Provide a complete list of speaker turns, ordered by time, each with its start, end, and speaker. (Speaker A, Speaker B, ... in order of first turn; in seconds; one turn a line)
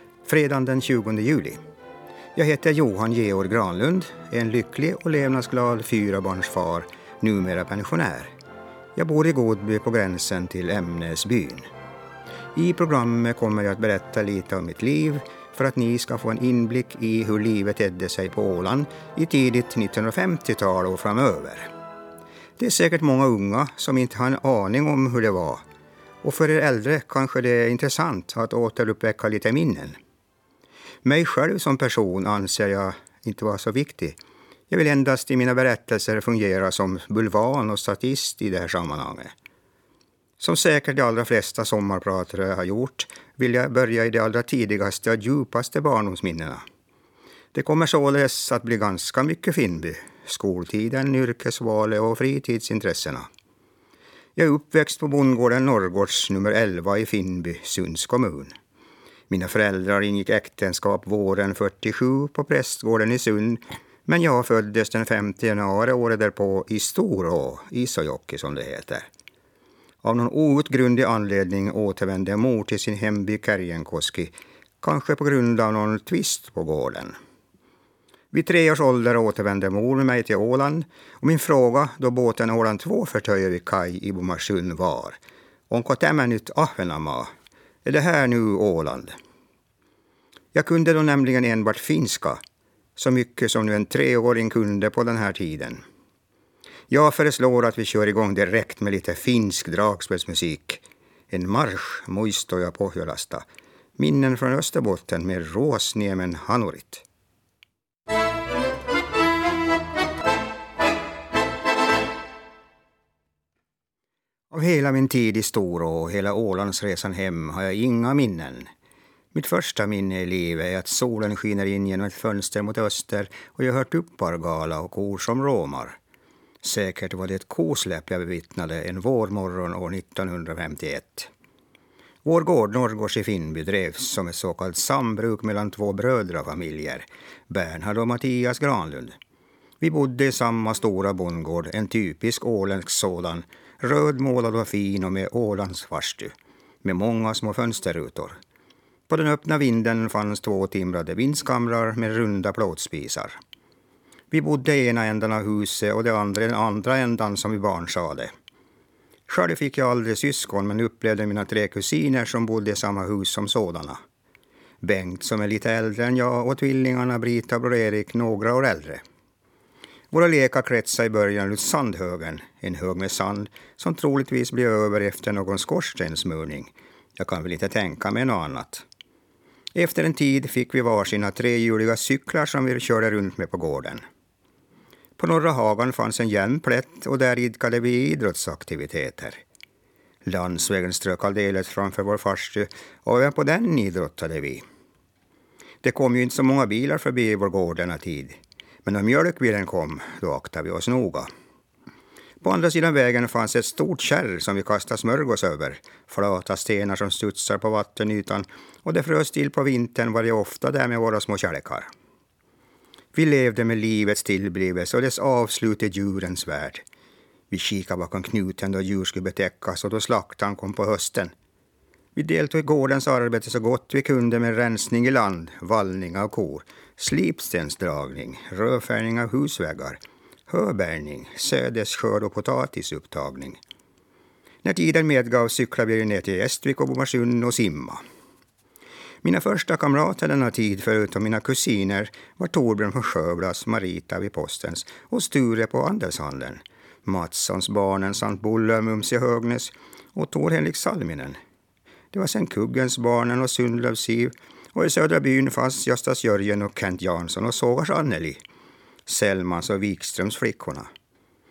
Speaker A: 0.2-1.6
Speaker A: 2.3-8.3
Speaker A: 8.9-11.7
Speaker A: 12.5-21.7
Speaker A: 22.6-25.6
Speaker A: 26.2-30.0
Speaker A: 31.0-34.2
Speaker A: 34.7-39.3
Speaker A: 40.4-46.6
Speaker A: 47.5-53.3
Speaker A: 54.4-58.5
Speaker A: 59.3-69.1
Speaker A: 70.0-77.2
Speaker A: 78.3-85.2
Speaker A: 85.7-87.3
Speaker A: 87.8-89.2
Speaker A: 90.5-92.4
Speaker A: 93.0-95.8
Speaker A: 96.9-103.4
Speaker A: 104.0-107.0
Speaker A: 114.5-118.7
Speaker A: 119.3-126.0
Speaker A: 126.6-131.3
Speaker A: 132.2-139.2
Speaker A: 139.8-146.3
Speaker A: 146.8-148.4
Speaker A: 149.1-153.4
Speaker A: 154.3-158.3
Speaker A: 159.3-164.0
Speaker A: 164.8-169.0
Speaker A: 170.1-178.8
Speaker A: 179.7-184.0
Speaker A: 185.2-189.4
Speaker A: 190.2-194.6
Speaker A: 195.8-201.3
Speaker A: 202.4-211.9
Speaker A: 213.1-216.8
Speaker A: 217.5-221.3
Speaker A: 222.1-233.6
Speaker A: 234.6-238.0
Speaker A: 239.2-251.4
Speaker A: 252.1-258.4
Speaker A: 259.1-260.9